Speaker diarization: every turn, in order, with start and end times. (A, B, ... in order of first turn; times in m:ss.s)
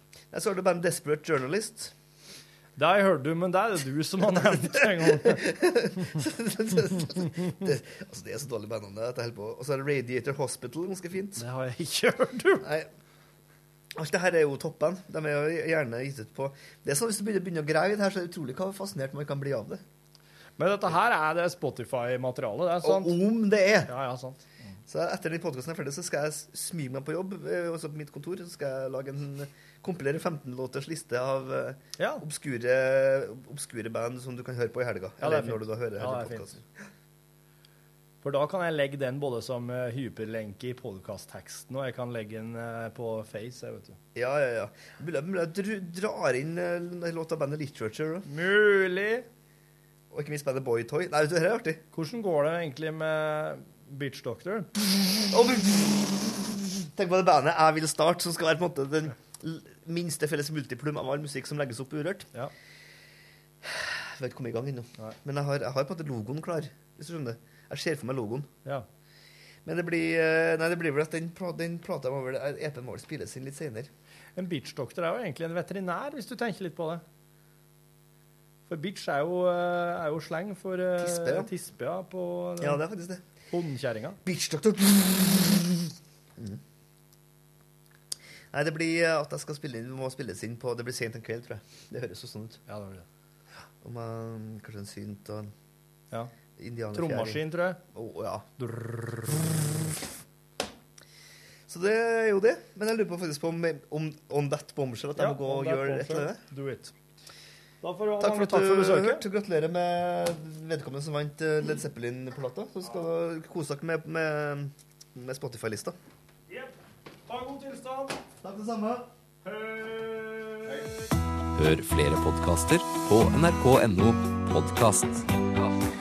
0:00.3-0:01.9 A
0:02.8-0:05.4 B
0:04.4-0:11.4 A
0:11.4-0:12.6 B
0:12.6-0:12.9 A
0:14.0-0:19.8 A
0:20.6-0:23.2 B
0:22.8-0:23.9 A
0:23.9-0:24.5 B
0:24.9-0:36.6 A
0:32.0-0:32.2 B
0:35.2-0:36.5 B
0:38.2-0:44.0 B
0:44.1-0:48.3 A
0:48.2-0:49.2 B
0:50.1-0:51.8 A
0:51.9-0:54.7 B
0:54.9-1:02.3 A
1:03.6-1:08.5 A
1:09.6-1:13.9 A
1:14.4-1:17.0 B
1:18.7-1:22.8 B
1:21.0-1:21.5 A
1:22.6-1:23.2 A
1:23.5-1:24.2 B
1:24.2-1:26.6 A
1:28.5-1:32.6 A
1:32.7-1:33.0 B
1:33.8-1:35.5 A
1:36.6-1:40.0 A
1:36.9-1:37.8 B
1:41.7-1:46.4 A
1:45.2-1:46.9 B
1:47.8-1:49.2 B
1:48.2-1:56.0 A
1:56.5-1:58.2 B
1:58.4-1:59.1 A
1:59.4-2:00.8 B
2:01.6-2:05.2 C